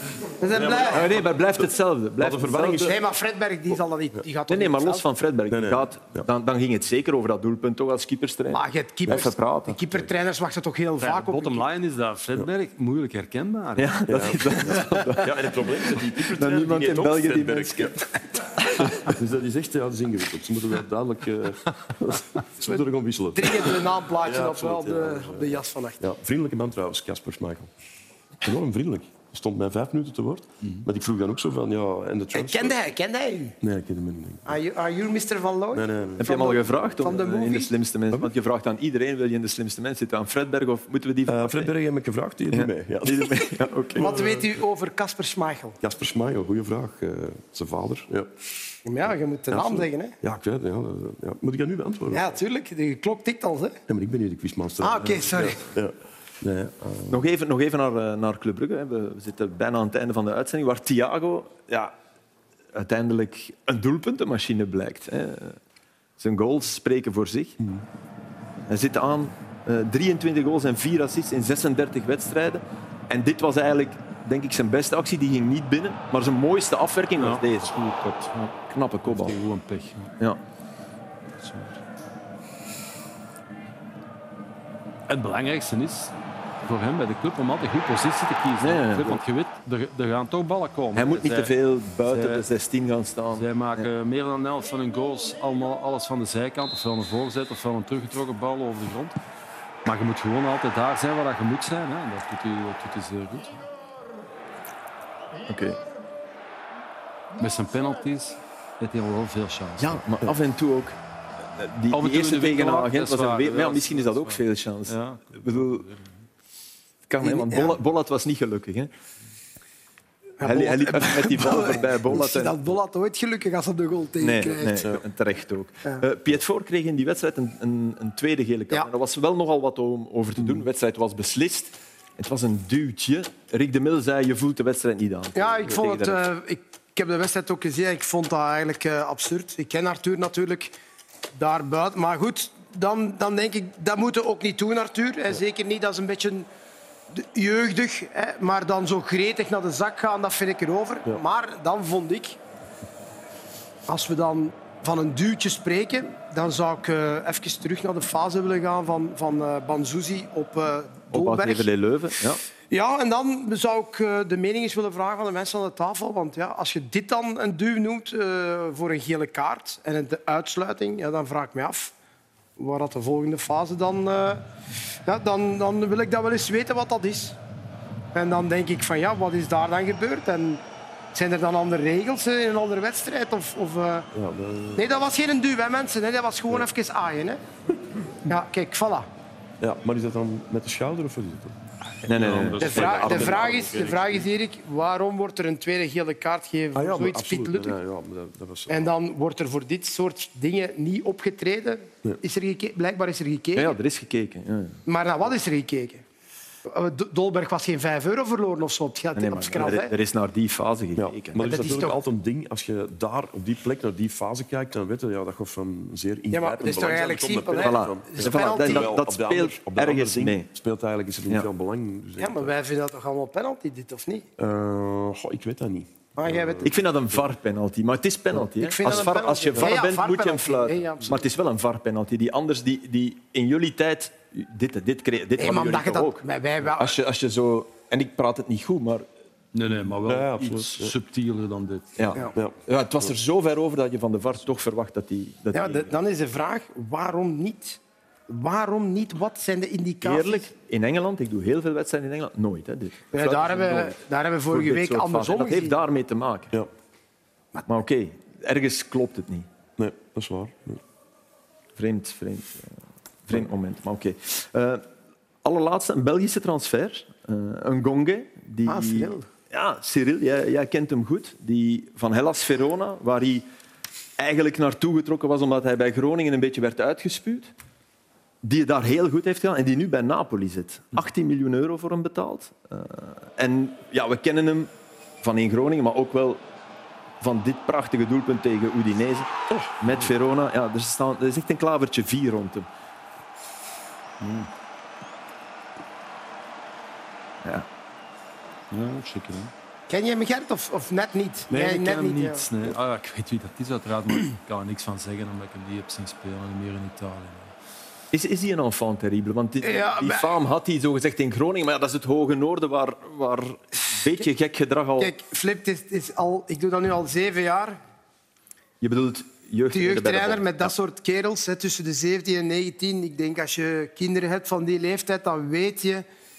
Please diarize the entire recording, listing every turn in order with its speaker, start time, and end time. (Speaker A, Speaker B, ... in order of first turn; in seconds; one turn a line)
Speaker A: 0.4-1.1
Speaker B: 0.5-1.2
Speaker C: 0.9-2.9
Speaker B: 2.2-3.0
Speaker A: 2.7-5.0
Speaker C: 4.5-9.8
Speaker B: 5.5-6.2
Speaker A: 8.5-11.6
Speaker D: 11.0-14.0
Speaker C: 13.8-18.0
Speaker B: 14.1-18.0
Speaker B: 18.8-27.7
Speaker A: 23.3-26.0
Speaker B: 28.4-32.8
Speaker A: 32.3-33.6
Speaker B: 33.6-34.4
Speaker A: 34.5-37.7
Speaker B: 35.7-36.3
Speaker C: 36.2-41.7
Speaker B: 41.3-44.4
Speaker C: 42.5-44.2
Speaker A: 44.0-45.8
Speaker B: 45.8-48.3
Speaker A: 48.8-50.2
Speaker B: 49.5-52.4
Speaker A: 52.1-53.8
Speaker B: 53.9-57.2
Speaker A: 54.8-55.6
Speaker C: 57.1-61.9
Speaker C: 62.7-65.6
Speaker C: 66.2-67.6
Speaker C: 68.7-77.7
Speaker D: 77.2-80.1
Speaker C: 78.7-79.4
Speaker D: 81.4-81.8
Speaker D: 85.1-91.5
Speaker C: 88.6-89.2
Speaker C: 90.9-93.9
Speaker D: 92.0-92.5
Speaker D: 93.3-99.2
Speaker D: 99.8-103.6
Speaker C: 105.5-105.8
Speaker D: 107.4-110.0
Speaker C: 109.8-110.9
Speaker C: 111.5-115.8
Speaker D: 111.9-116.0
Speaker C: 117.1-118.9
Speaker A: 117.2-117.8
Speaker A: 120.4-124.8
Speaker C: 120.4-122.5
Speaker C: 124.2-136.3
Speaker A: 135.3-140.7
Speaker A: 141.3-146.5
Speaker A: 147.1-152.4
Speaker A: 153.9-161.7
Speaker C: 161.1-162.4
Speaker A: 162.7-171.9
Speaker A: 172.6-174.4
Speaker A: 175.1-177.4
Speaker A: 178.1-180.6
Speaker A: 181.1-184.1
Speaker B: 184.1-184.8
Speaker A: 184.8-187.4
Speaker A: 188.3-189.1
Speaker B: 189.6-191.6
Speaker C: 192.1-193.7
Speaker D: 192.1-194.2
Speaker A: 192.6-197.8
Speaker B: 192.8-193.2
Speaker B: 196.7-198.9
Speaker A: 198.7-203.8
Speaker C: 203.6-204.8
Speaker A: 204.9-206.0
Speaker A: 206.7-209.9
Speaker C: 209.1-211.6
Speaker B: 210.9-222.5
Speaker A: 211.4-212.0
Speaker A: 216.3-219.0
Speaker C: 217.6-220.5
Speaker A: 222.2-224.2
Speaker B: 224.4-226.7
Speaker A: 226.2-226.7
Speaker C: 226.6-239.1
Speaker A: 228.4-231.2
Speaker B: 228.9-229.7
Speaker A: 235.4-237.0
Speaker D: 239.5-241.9
Speaker B: 240.0-240.9
Speaker C: 242.0-245.9
Speaker A: 245.5-250.5
Speaker C: 250.0-254.0
Speaker A: 253.1-255.8
Speaker C: 254.5-256.5
Speaker C: 257.6-259.5
Speaker B: 259.8-260.8
Speaker C: 261.8-262.7
Speaker C: 263.3-264.8
Speaker C: 265.4-273.4
Speaker A: 268.7-269.3
Speaker C: 274.2-277.5
Speaker C: 278.4-284.7
Speaker C: 285.2-286.4
Speaker C: 287.2-292.7
Speaker D: 294.2-294.5
Speaker D: 298.7-299.5
Speaker A: 299.9-302.4
Speaker D: 301.5-307.5
Speaker C: 308.1-315.1
Speaker A: 309.6-310.3
Speaker A: 315.0-317.8
Speaker C: 318.8-320.7
Speaker A: 319.7-326.0